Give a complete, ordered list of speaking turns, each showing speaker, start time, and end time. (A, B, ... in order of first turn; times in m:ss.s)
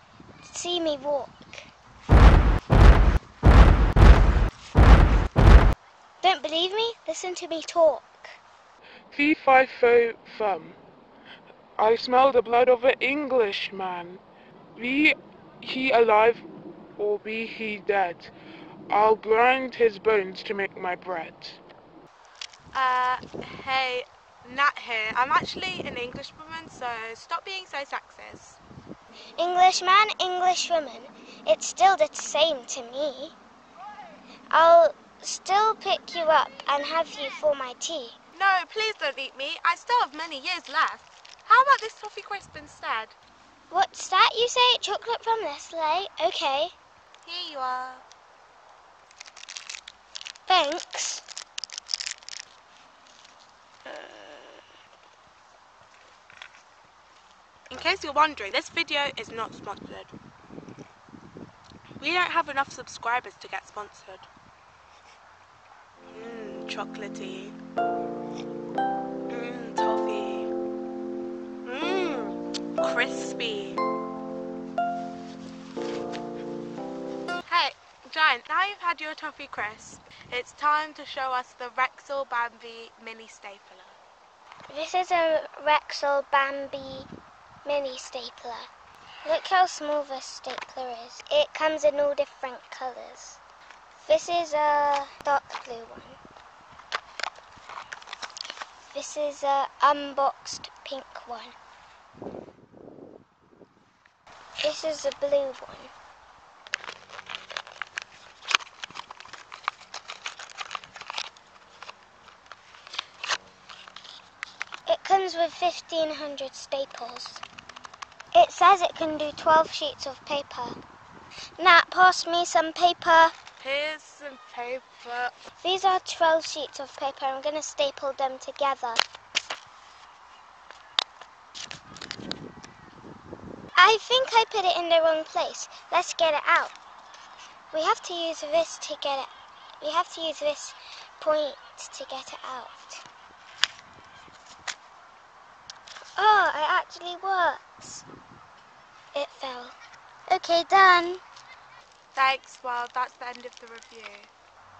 0:00.4-0:01.7 A
0:06.2-0:08.4 A
0:09.1-0:10.8 B
0:11.8-0:14.2 B
0:14.8-0:16.4 B
0:17.0-0:18.3 B
0:18.9-0:21.6 B
0:22.7-0:28.6 C
0:29.4-0:33.3 A
0:34.5-0:38.2 A
0:38.3-0:43.1 C
0:43.7-0:46.7 A
0:47.2-0:48.0 C
0:50.5-0:51.2 A
0:53.8-0:54.6 A
0:57.7-1:00.1 C
1:02.0-1:04.2 C
1:06.1-1:07.6 C
1:09.3-1:10.5 C
1:11.6-1:13.8 C
1:17.5-1:24.0 C
1:24.7-1:27.1 A
1:27.6-1:28.7 A
1:29.2-1:33.4 A
1:34.0-1:36.2 A
1:38.9-1:41.5 A
1:44.6-1:45.9 A
1:54.8-1:57.4 A
1:58.3-2:00.8 A
2:01.6-2:03.3 A
2:03.6-2:05.3 C
2:05.6-2:09.0 A
2:13.8-2:16.7 A
2:17.7-2:19.3 A
2:19.8-2:23.0 A
2:26.2-2:28.0 A
2:29.1-2:29.8 A
2:30.3-2:31.2 A
2:32.1-2:34.3 C